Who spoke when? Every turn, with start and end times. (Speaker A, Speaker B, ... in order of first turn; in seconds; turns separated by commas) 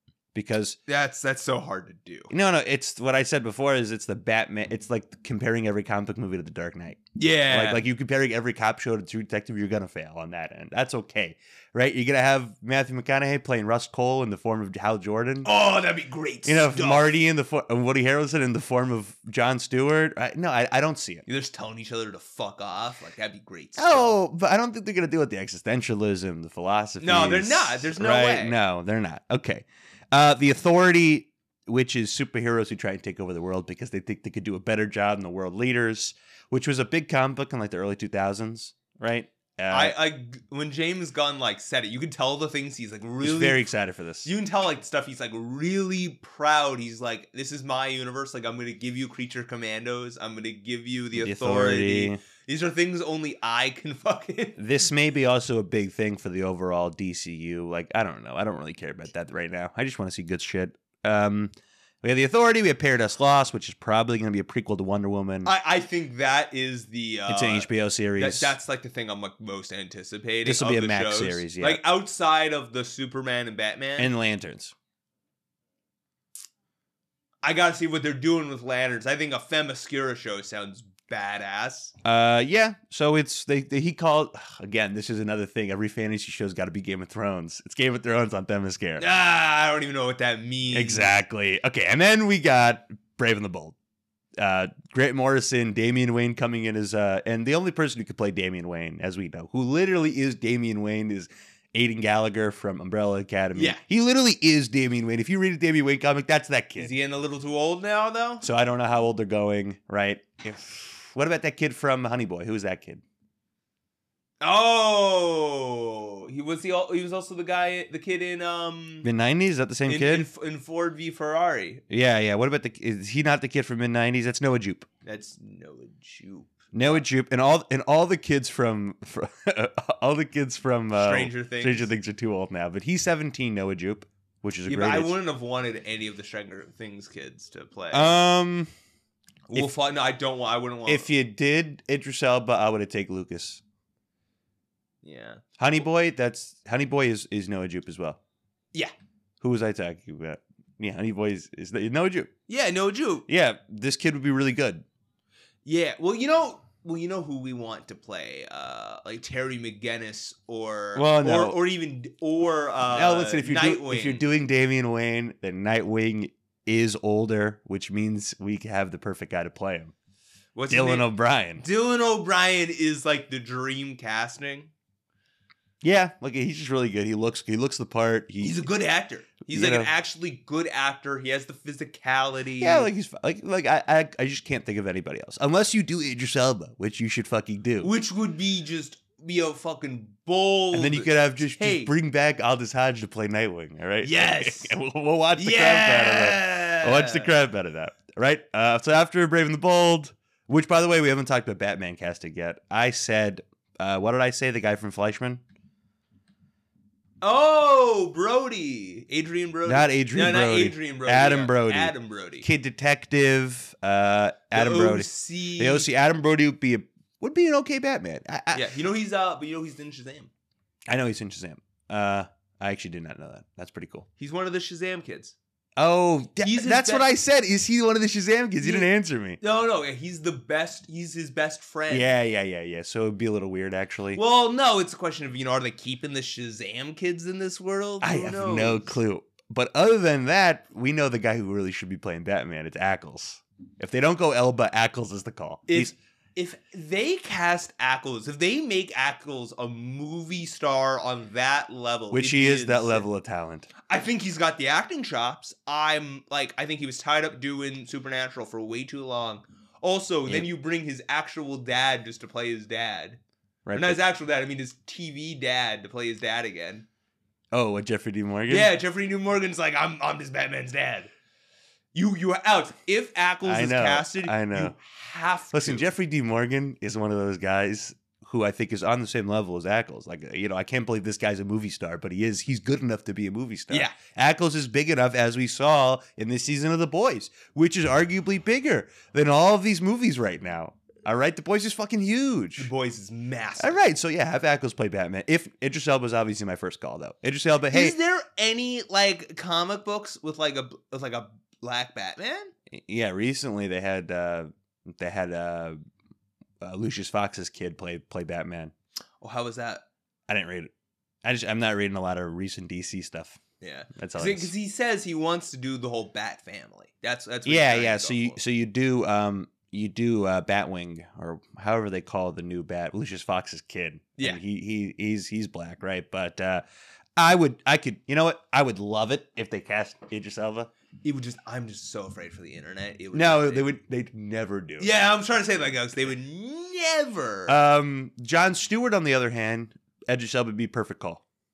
Speaker A: 0.3-0.8, Speaker B: 0.9-2.3, Speaker A: 2.3-15.5, Speaker B: 7.2-7.8, Speaker B: 15.4-17.1, Speaker A: 16.4-21.3, Speaker B: 21.3-24.1, Speaker A: 23.8-40.0, Speaker B: 27.0-28.6, Speaker B: 39.7-43.7, Speaker A: 43.2-44.3, Speaker B: 44.2-54.6, Speaker A: 51.2-52.2, Speaker A: 54.6-61.5, Speaker A: 62.0-65.5, Speaker B: 65.5-74.1, Speaker A: 67.3-68.5, Speaker A: 70.4-71.8, Speaker A: 74.0-74.7, Speaker B: 77.4-81.9, Speaker A: 82.0-89.1, Speaker B: 89.0-91.1, Speaker A: 90.7-93.8, Speaker A: 94.4-106.9, Speaker B: 103.5-103.8, Speaker B: 106.8-108.5, Speaker A: 108.4-113.0, Speaker B: 114.4-119.1, Speaker A: 119.0-120.3, Speaker B: 119.9-121.8, Speaker A: 121.9-124.9, Speaker B: 125.0-127.0, Speaker A: 126.7-135.2, Speaker B: 130.9-131.9, Speaker B: 134.7-138.1, Speaker A: 137.9-138.7, Speaker B: 139.5-141.1, Speaker A: 140.9-143.6, Speaker B: 145.0-145.4, Speaker A: 145.6-148.2, Speaker A: 149.4-152.3, Speaker B: 152.5-153.3, Speaker A: 153.3-154.8, Speaker B: 155.7-164.2, Speaker A: 160.9-161.6, Speaker A: 162.9-169.9, Speaker B: 170.6-174.7, Speaker A: 170.7-171.6, Speaker A: 175.8-178.6, Speaker B: 178.4-182.9, Speaker A: 179.5-179.9, Speaker A: 182.6-187.9, Speaker B: 187.8-191.9, Speaker A: 190.7-205.4, Speaker B: 194.0-194.8, Speaker B: 195.4-197.3, Speaker B: 207.2-212.5, Speaker A: 209.7-218.7, Speaker B: 214.5-215.9, Speaker B: 218.5-220.3, Speaker A: 220.9-224.1, Speaker B: 224.2-225.3, Speaker A: 225.8-229.4, Speaker B: 226.4-227.1, Speaker B: 228.6-228.9, Speaker B: 229.4-232.1, Speaker A: 231.9-234.2, Speaker B: 234.2-239.0, Speaker A: 238.0-245.9, Speaker B: 245.7-253.1, Speaker A: 252.1-253.7, Speaker B: 253.8-263.2, Speaker A: 263.7-264.0, Speaker B: 263.8-266.9, Speaker A: 267.5-268.7, Speaker B: 268.5-271.1, Speaker B: 271.9-275.9, Speaker A: 273.4-274.8, Speaker A: 275.5-292.7, Speaker B: 283.7-283.9, Speaker B: 292.6-293.8, Speaker A: 293.6-297.9, Speaker B: 297.7-302.5, Speaker A: 302.7-305.8, Speaker A: 306.6-308.7, Speaker B: 309.2-309.8, Speaker A: 310.3-310.7, Speaker A: 311.2-313.4, Speaker B: 313.6-318.4, Speaker A: 313.9-314.5, Speaker A: 317.5-326.6, Speaker A: 327.2-330.7, Speaker B: 331.0-333.7, Speaker A: 333.1-334.9, Speaker B: 334.8-337.6, Speaker A: 337.5-341.2